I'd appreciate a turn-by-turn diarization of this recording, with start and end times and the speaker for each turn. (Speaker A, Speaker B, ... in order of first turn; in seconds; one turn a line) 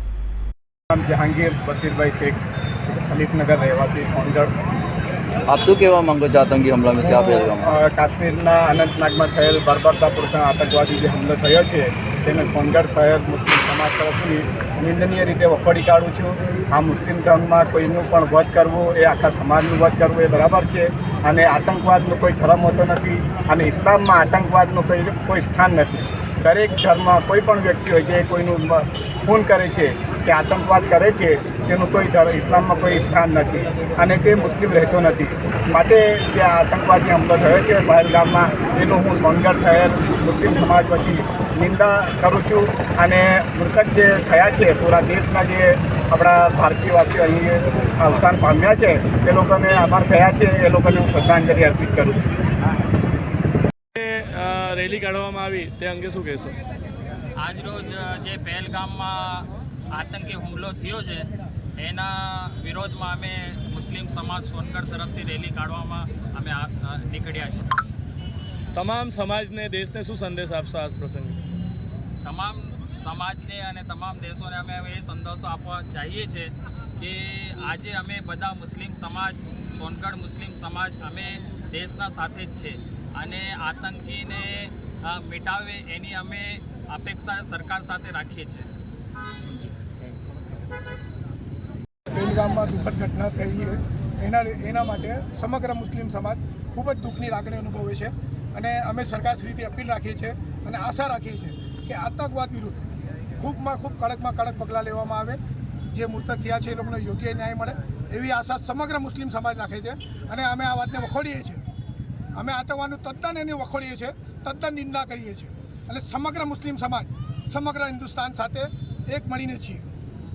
Speaker A: 0.9-4.5
Speaker B: 5.5-7.7
Speaker A: 7.4-52.2
Speaker C: 54.0-56.6
Speaker D: 57.4-61.3
Speaker D: 61.8-67.8
Speaker C: 68.8-71.4
Speaker D: 72.2-88.7
Speaker E: 92.1-102.8
Speaker E: 103.4-105.4
Speaker E: 105.9-111.6
Speaker E: 112.3-119.8